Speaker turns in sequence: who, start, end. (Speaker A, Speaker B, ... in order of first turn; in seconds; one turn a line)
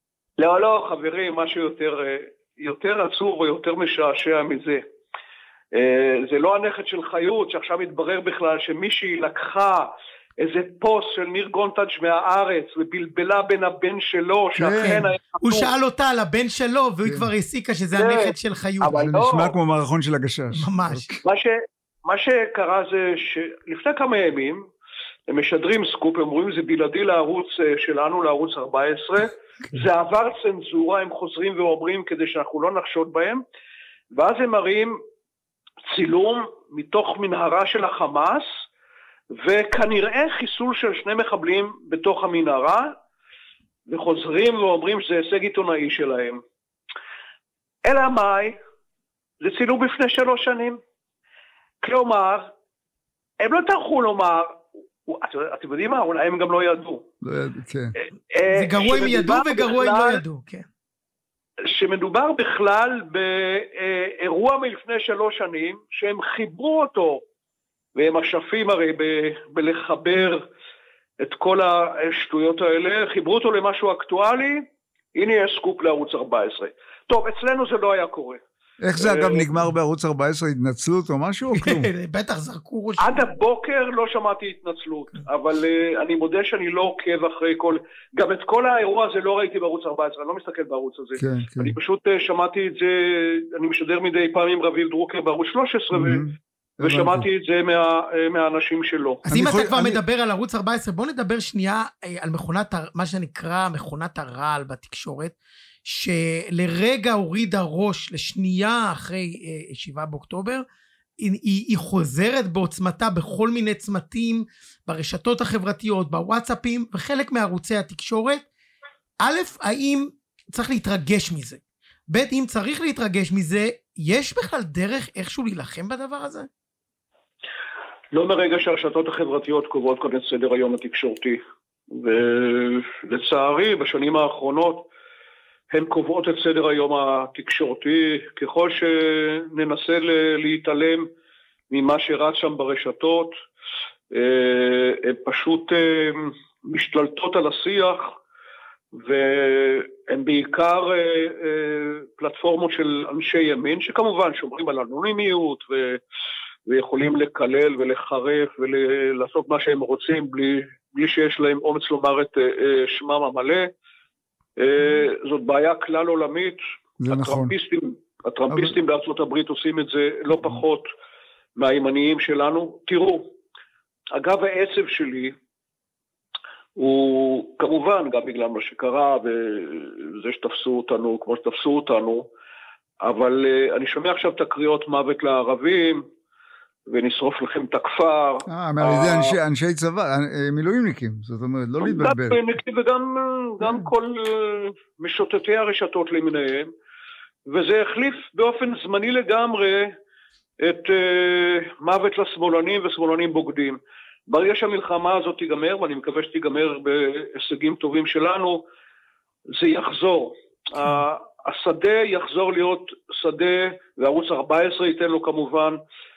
Speaker A: 0.4-4.8
Speaker A: 5.7-15.7
Speaker B: 14.5-15.0
Speaker C: 14.8-18.9
Speaker A: 17.9-19.5
Speaker B: 18.9-21.2
Speaker C: 20.5-21.1
Speaker A: 21.2-24.6
Speaker A: 25.3-33.4
Speaker A: 34.1-34.9
Speaker A: 35.9-38.5
Speaker A: 39.4-42.9
Speaker A: 43.9-46.4
Speaker A: 47.8-48.5
Speaker A: 49.4-50.8
Speaker A: 51.8-52.5
Speaker A: 53.4-57.0
Speaker B: 57.2-57.9
Speaker A: 58.3-60.2
Speaker C: 58.5-60.6
Speaker A: 61.6-67.2
Speaker A: 68.0-70.4
Speaker A: 71.2-74.6
Speaker A: 75.1-78.4
Speaker B: 78.8-81.9
Speaker A: 79.0-79.5
Speaker C: 81.5-83.2
Speaker A: 83.0-96.2
Speaker B: 91.2-91.7
Speaker B: 95.9-97.2
Speaker A: 96.8-99.2
Speaker B: 99.3-100.0
Speaker C: 99.3-105.3
Speaker C: 105.8-110.6
Speaker C: 111.2-118.4
Speaker C: 119.2-126.5
Speaker A: 128.1-131.4
Speaker A: 131.9-134.9
Speaker A: 135.7-141.1
Speaker A: 141.7-143.3
Speaker A: 144.1-148.1
Speaker A: 148.9-156.0
Speaker A: 156.7-163.7
Speaker A: 164.6-170.8
Speaker B: 167.0-167.5
Speaker A: 171.6-173.3
Speaker A: 174.1-175.3
Speaker A: 176.8-182.3
Speaker A: 183.0-186.0
Speaker A: 186.9-189.3
Speaker B: 188.4-192.4
Speaker A: 191.8-196.7
Speaker A: 197.5-199.9
Speaker A: 200.6-208.6
Speaker A: 209.5-215.8